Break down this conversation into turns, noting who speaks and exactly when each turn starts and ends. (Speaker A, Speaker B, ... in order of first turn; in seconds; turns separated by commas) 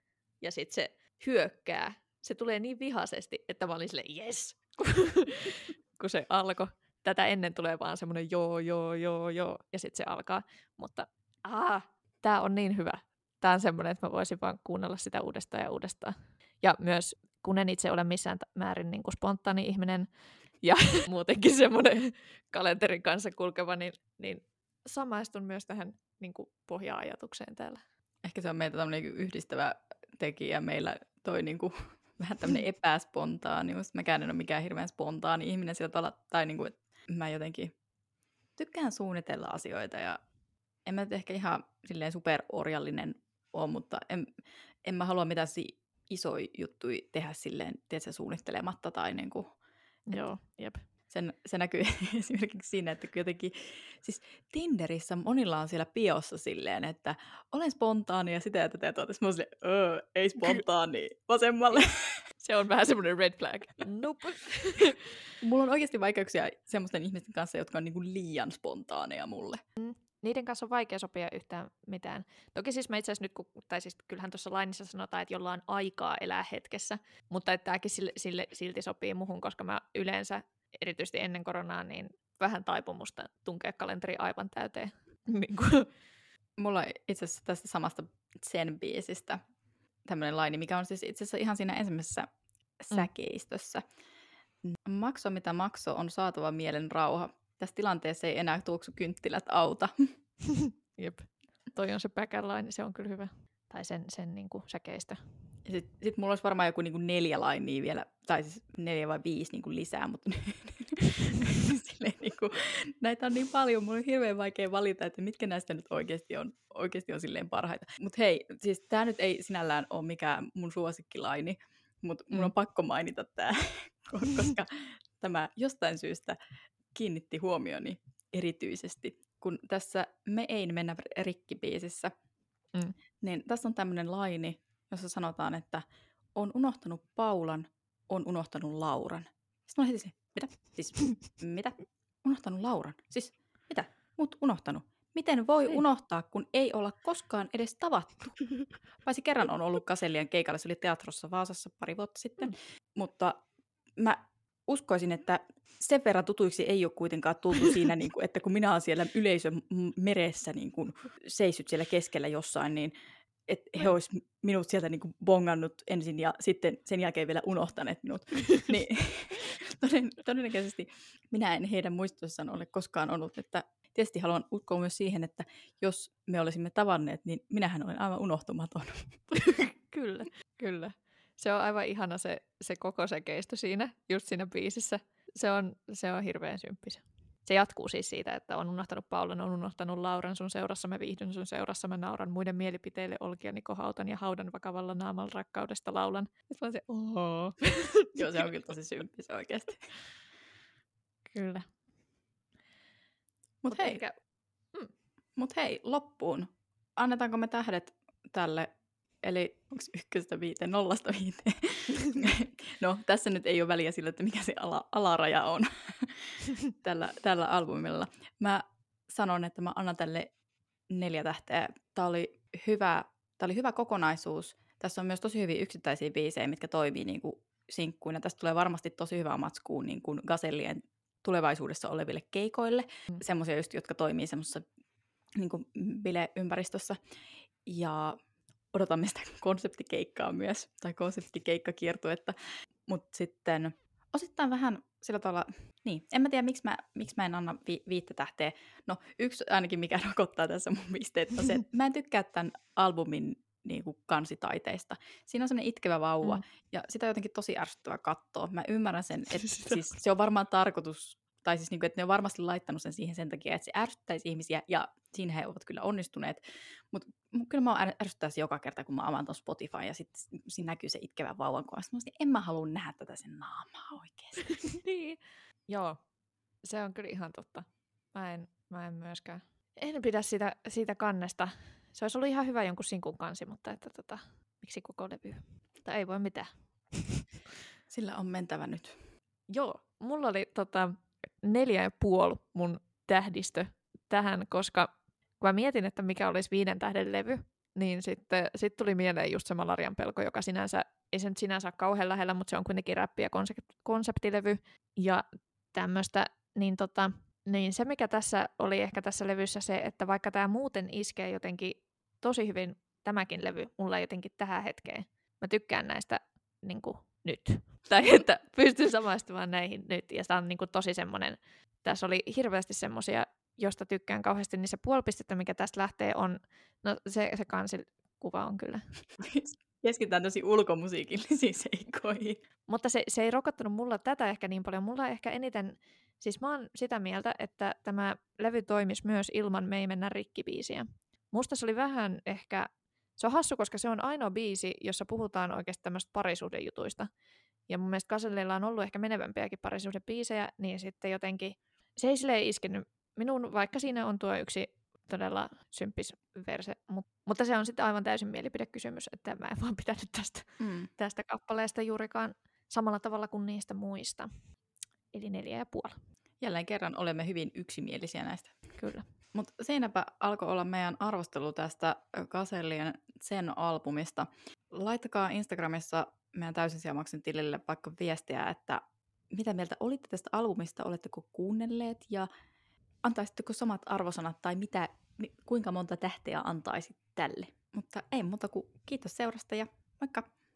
Speaker A: 0.4-20.1, Speaker A: 20.6-27.8, Speaker B: 28.2-37.7, Speaker B: 38.6-40.2, Speaker B: 40.9-44.3, Speaker B: 44.9-49.5, Speaker A: 50.1-50.8, Speaker B: 51.1-62.2, Speaker A: 62.4-65.1, Speaker B: 65.4-69.6, Speaker A: 69.8-85.9, Speaker B: 86.6-89.4, Speaker B: 90.0-92.3, Speaker B: 92.8-93.8, Speaker B: 94.8-100.1, Speaker A: 100.5-105.2, Speaker B: 105.7-126.3, Speaker B: 126.9-132.1, Speaker B: 133.2-135.8, Speaker B: 136.3-153.4, Speaker B: 154.0-162.9, Speaker B: 163.5-179.3, Speaker A: 179.3-198.4, Speaker B: 198.1-199.9, Speaker A: 201.3-201.7, Speaker B: 203.6-204.0, Speaker A: 203.7-204.2, Speaker B: 205.4-208.7, Speaker B: 209.2-220.3, Speaker B: 220.9-234.6, Speaker B: 235.4-237.0, Speaker B: 237.6-238.2, Speaker B: 238.7-242.3, Speaker B: 242.9-266.4, Speaker A: 259.4-259.8, Speaker B: 266.9-274.5, Speaker A: 274.6-276.0, Speaker A: 276.6-287.3, Speaker B: 287.9-289.0, Speaker A: 289.5-328.9, Speaker B: 329.2-332.4, Speaker A: 332.7-347.1, Speaker A: 347.7-364.3, Speaker B: 360.6-360.9, Speaker A: 365.1-365.9, Speaker B: 366.4-368.6, Speaker A: 368.8-369.0, Speaker B: 369.3-382.3, Speaker B: 383.0-390.3